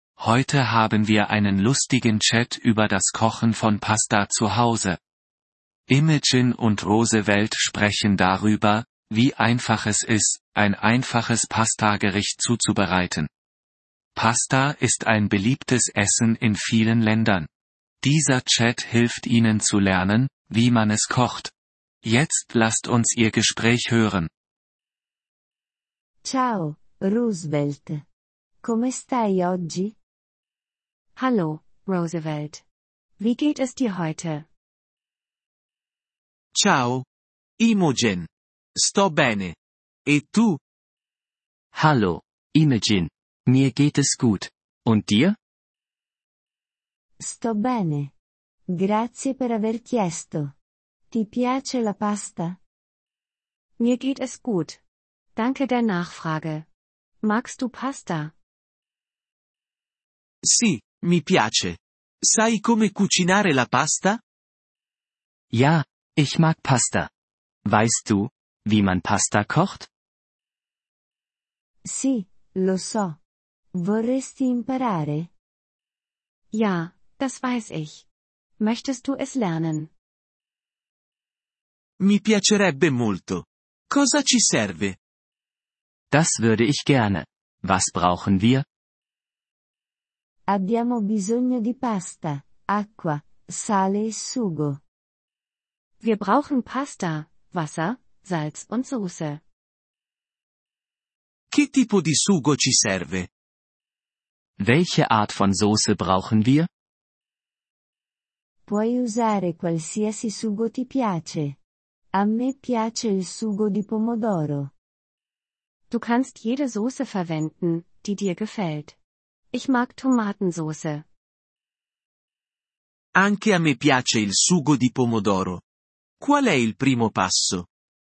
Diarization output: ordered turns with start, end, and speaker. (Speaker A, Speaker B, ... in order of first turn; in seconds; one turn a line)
Speaker A: 0.2-5.0
Speaker A: 5.9-13.3
Speaker A: 14.2-17.5
Speaker A: 18.0-21.5
Speaker A: 22.0-24.3
Speaker B: 26.2-28.0
Speaker B: 28.6-30.0
Speaker C: 31.2-32.6
Speaker C: 33.2-34.5
Speaker D: 36.6-37.0
Speaker D: 37.6-39.6
Speaker D: 40.1-40.6
Speaker E: 41.7-45.4
Speaker B: 47.2-48.1
Speaker B: 48.7-50.5
Speaker B: 51.1-52.6
Speaker C: 53.8-54.8
Speaker C: 55.4-56.7
Speaker C: 57.2-58.3
Speaker D: 60.4-64.2
Speaker E: 65.5-67.1
Speaker E: 67.7-69.9
Speaker B: 71.8-73.2
Speaker B: 73.8-75.3
Speaker C: 76.5-78.1
Speaker C: 78.6-79.9
Speaker D: 82.0-85.0
Speaker E: 86.1-88.7
Speaker B: 90.5-94.8
Speaker C: 96.0-99.4
Speaker D: 101.5-103.3
Speaker E: 104.6-106.7
Speaker B: 108.7-111.6
Speaker B: 112.1-114.7
Speaker C: 115.9-119.0
Speaker C: 119.5-121.0
Speaker D: 123.2-125.6
Speaker D: 126.2-127.7